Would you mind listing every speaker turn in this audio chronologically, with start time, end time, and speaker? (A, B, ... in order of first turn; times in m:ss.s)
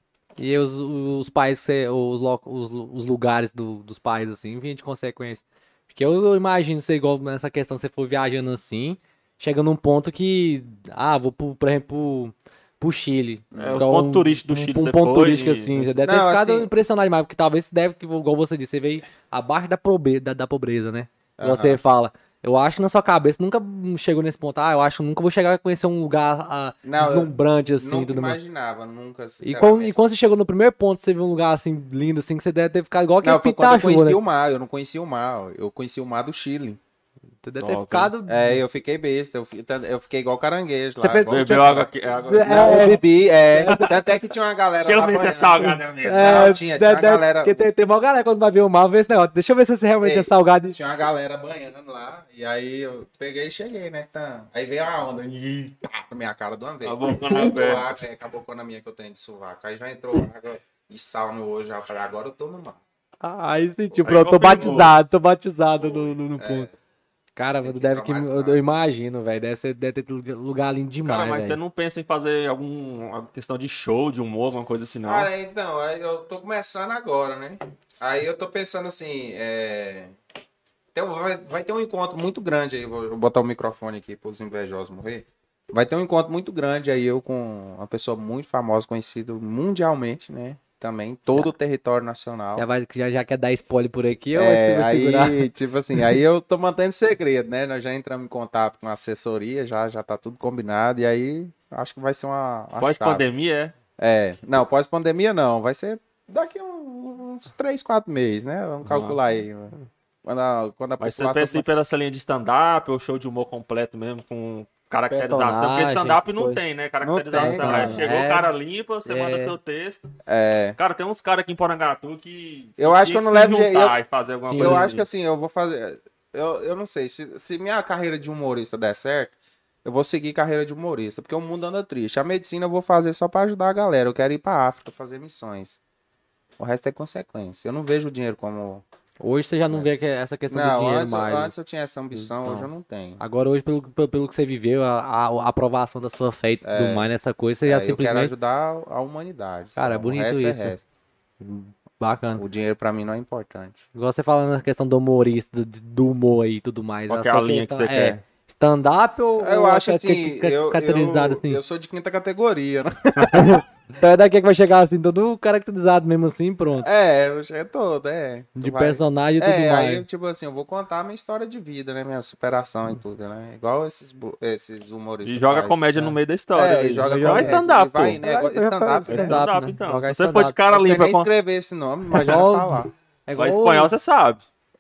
0:00.4-0:28.4 A
0:13.5-0:13.8 B
0:13.6-0:16.0 C
0:16.0-0:16.7 B
0:21.4-0:21.8 B
0:26.8-0:30.0 B
0:29.4-0:34.2 A
0:33.2-0:36.8 B
0:37.4-0:38.6 A
0:37.6-0:38.1 C
0:38.2-0:41.8 B
0:41.0-0:43.9 A
0:41.3-0:42.9 C
0:42.4-0:47.7 B
0:43.7-0:43.9 C
0:44.8-0:46.6 C
0:46.0-0:50.8 A
0:50.0-1:02.8 B
0:56.8-0:58.0 C
1:03.2-1:06.7 A
1:04.0-1:05.0 C
1:05.8-1:06.8 B
1:07.4-1:11.6 A
1:07.5-1:08.6 B
1:11.1-1:15.3 C
1:15.1-1:20.2 B
1:20.9-1:32.7 B
1:32.6-1:36.2 A
1:34.3-1:43.2 B
1:42.8-1:43.7 C
1:44.0-1:51.7 B
1:48.8-1:49.2 C
1:51.0-2:00.1 C
1:55.1-1:56.6 A
1:57.0-1:58.0 B
1:57.3-1:58.5 A
1:59.0-1:59.6 A
2:00.2-2:00.8 B
2:00.8-2:05.0 C
2:02.8-2:04.0 B
2:04.5-2:04.9 A
2:04.6-2:09.3 B
2:09.8-2:15.8 B
2:16.6-2:18.8 B
2:19.2-2:21.5 A
2:20.5-2:23.2 B
2:22.2-2:28.3 A
2:26.6-2:27.1 B
2:27.7-2:30.8 B
2:29.8-2:30.8 A
2:31.4-2:32.4 A
2:32.4-2:33.8 B
2:33.9-2:41.6 A
2:37.1-2:38.2 C
2:39.4-2:43.6 B
2:43.2-2:43.5 C
2:43.3-2:46.9 A
2:46.8-2:59.5 B
2:48.6-2:50.0 A
2:55.2-2:58.2 C
2:57.0-3:00.6 A
2:59.1-3:01.3 C
3:00.7-3:02.9 B
3:02.2-3:03.9 A
3:03.4-3:04.4 C